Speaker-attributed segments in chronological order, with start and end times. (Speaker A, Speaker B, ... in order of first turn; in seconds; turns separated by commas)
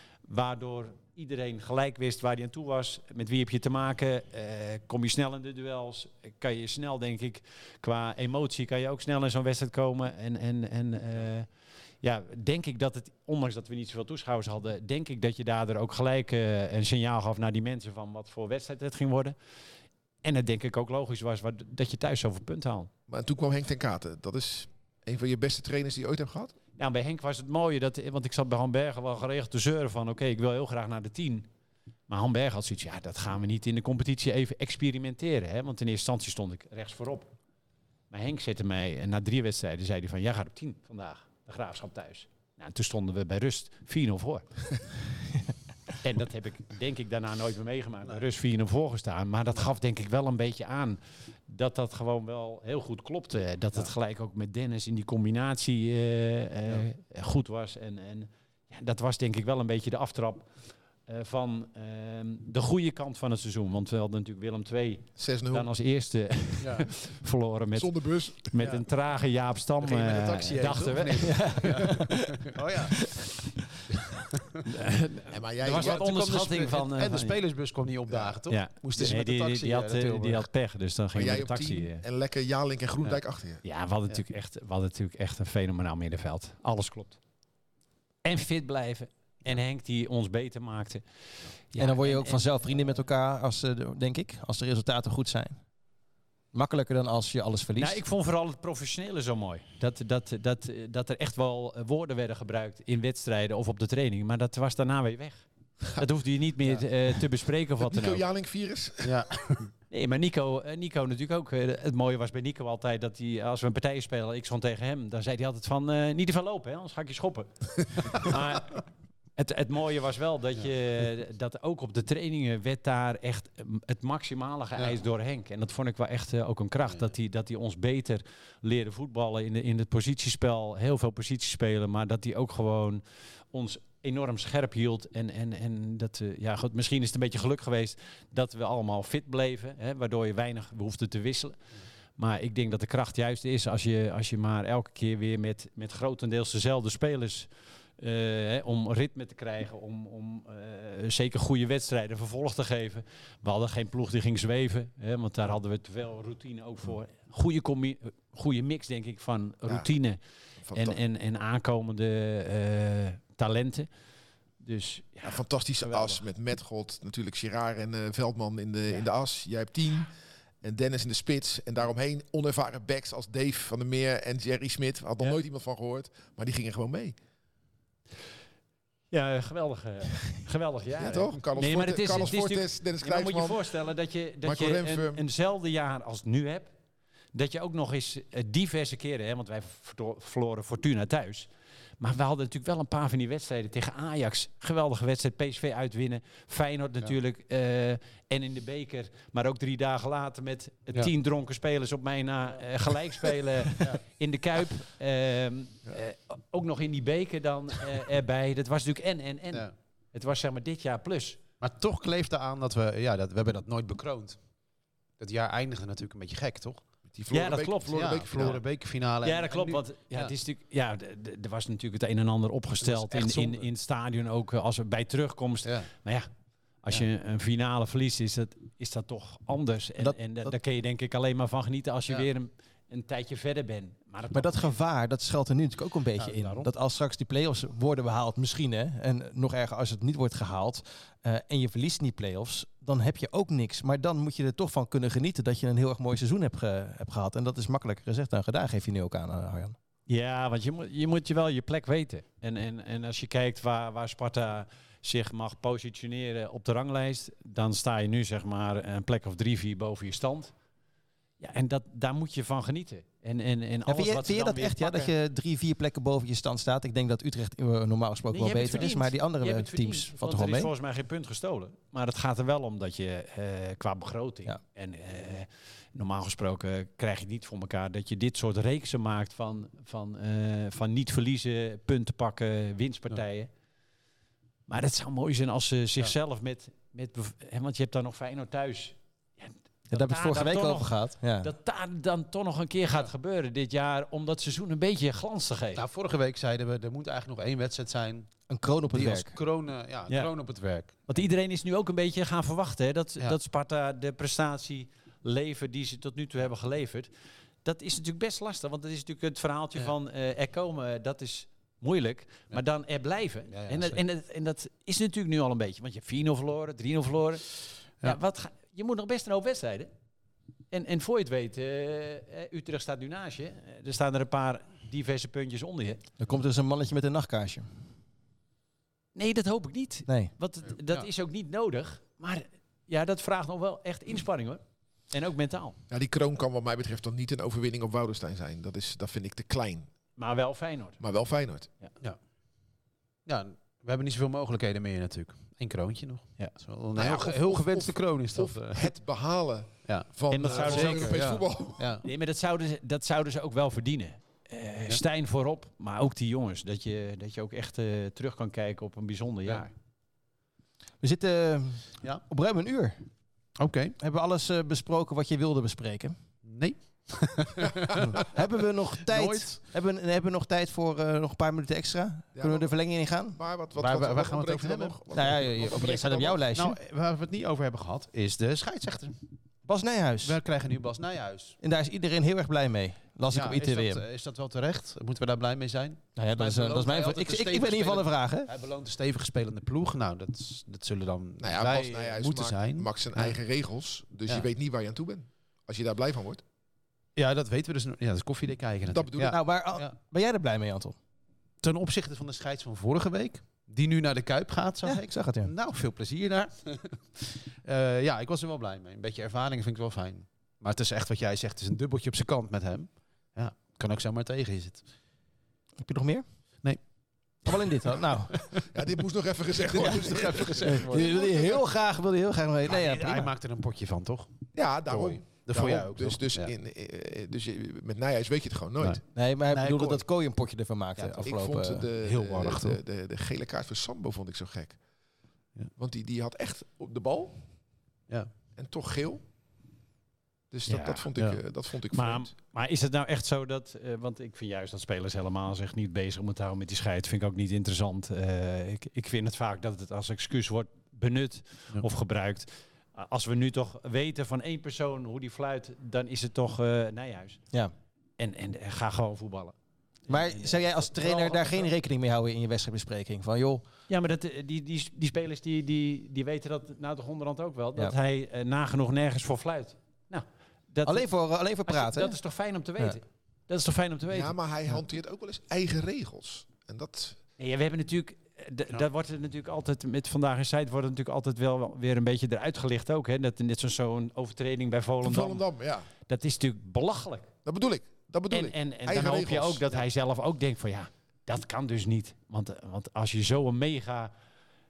Speaker A: 0.3-11.5, Speaker A: 12.0-19.4, Speaker A: 20.2-22.9, Speaker B: 23.1-26.6, Speaker A: 26.8-31.5, Speaker A: 32.1-37.3, Speaker A: 38.1-44.5, Speaker A: 46.0-60.5, Speaker A: 61.1-71.4, Speaker B: 65.2-65.7, Speaker C: 66.6-66.9, Speaker B: 67.8-68.6, Speaker C: 69.8-73.2, Speaker D: 71.2-72.2, Speaker C: 73.9-74.6, Speaker A: 74.7-77.4, Speaker B: 75.3-76.0, Speaker C: 75.7-80.5, Speaker B: 78.1-78.4, Speaker A: 78.5-82.0, Speaker B: 81.1-83.6, Speaker A: 83.0-87.2, Speaker A: 88.2-91.0, Speaker A: 91.6-92.5, Speaker D: 91.8-95.6, Speaker D: 96.5-98.0, Speaker A: 97.8-105.5, Speaker A: 106.0-108.2, Speaker B: 107.9-109.3, Speaker C: 109.0-109.7, Speaker A: 109.9-118.8, Speaker A: 119.4-141.6, Speaker A: 142.2-160.2, Speaker B: 160.7-161.0, Speaker A: 160.7-163.9, Speaker A: 164.6-166.2, Speaker B: 165.2-177.2, Speaker A: 179.1-186.7, Speaker B: 181.0-183.8, Speaker B: 184.4-185.2, Speaker A: 187.3-191.5, Speaker A: 192.0-211.4, Speaker C: 211.6-214.4, Speaker C: 215.2-216.8, Speaker B: 217.1-218.6, Speaker A: 217.3-218.6, Speaker C: 217.9-220.3, Speaker A: 219.2-226.3, Speaker C: 222.8-223.7, Speaker C: 225.6-225.9, Speaker A: 226.8-234.8, Speaker D: 230.0-230.5, Speaker D: 234.3-249.8, Speaker C: 236.2-236.7, Speaker A: 250.1-260.5, Speaker A: 261.4-265.1, Speaker D: 263.9-270.7, Speaker A: 268.3-283.5, Speaker A: 284.7-295.8, Speaker D: 289.9-291.5, Speaker C: 295.8-298.3, Speaker D: 298.5-299.4, Speaker C: 298.9-301.1, Speaker A: 301.1-307.1, Speaker A: 307.6-319.9, Speaker C: 313.5-314.0, Speaker A: 320.7-326.0, Speaker D: 326.2-327.8, Speaker A: 329.1-335.8, Speaker C: 330.7-331.1, Speaker B: 335.9-339.9, Speaker A: 340.2-341.0, Speaker B: 341.0-341.7, Speaker C: 343.3-348.9, Speaker B: 347.0-351.9, Speaker C: 349.9-352.1, Speaker A: 350.3-351.2, Speaker A: 352.0-359.7, Speaker D: 361.0-363.0, Speaker C: 363.6-364.0, Speaker D: 364.0-366.2, Speaker C: 366.4-368.3, Speaker D: 368.1-373.4, Speaker C: 369.0-369.6, Speaker B: 372.4-376.4, Speaker C: 373.8-375.9, Speaker D: 375.1-376.8, Speaker C: 376.5-379.2, Speaker D: 379.7-380.4, Speaker C: 380.2-381.6, Speaker D: 381.6-384.0, Speaker C: 383.3-393.4, Speaker D: 386.2-388.5, Speaker B: 391.4-396.4, Speaker C: 397.2-399.9, Speaker B: 398.9-399.4, Speaker D: 399.2-401.0, Speaker C: 401.6-414.9, Speaker D: 404.8-405.5, Speaker D: 415.8-416.2, Speaker D: 417.4-418.5, Speaker B: 418.6-421.6, Speaker C: 419.6-421.4, Speaker D: 420.7-423.3, Speaker C: 422.6-424.3, Speaker B: 424.6-429.0, Speaker C: 424.9-426.5, Speaker C: 428.8-430.1, Speaker D: 429.1-431.9, Speaker C: 431.0-432.8, Speaker B: 431.2-434.8, Speaker B: 435.8-437.4, Speaker B: 438.6-439.2, Speaker B: 440.5-442.3, Speaker A: 440.7-441.1, Speaker C: 441.2-441.4, Speaker A: 441.9-457.4, Speaker A: 458.2-459.5, Speaker A: 460.1-461.7, Speaker D: 460.1-463.6, Speaker A: 463.9-471.1, Speaker D: 470.9-472.2, Speaker A: 471.6-474.4, Speaker B: 474.1-477.2, Speaker A: 477.4-485.4, Speaker B: 485.0-485.9, Speaker A: 486.1-487.3, Speaker B: 487.4-489.8, Speaker A: 488.3-494.1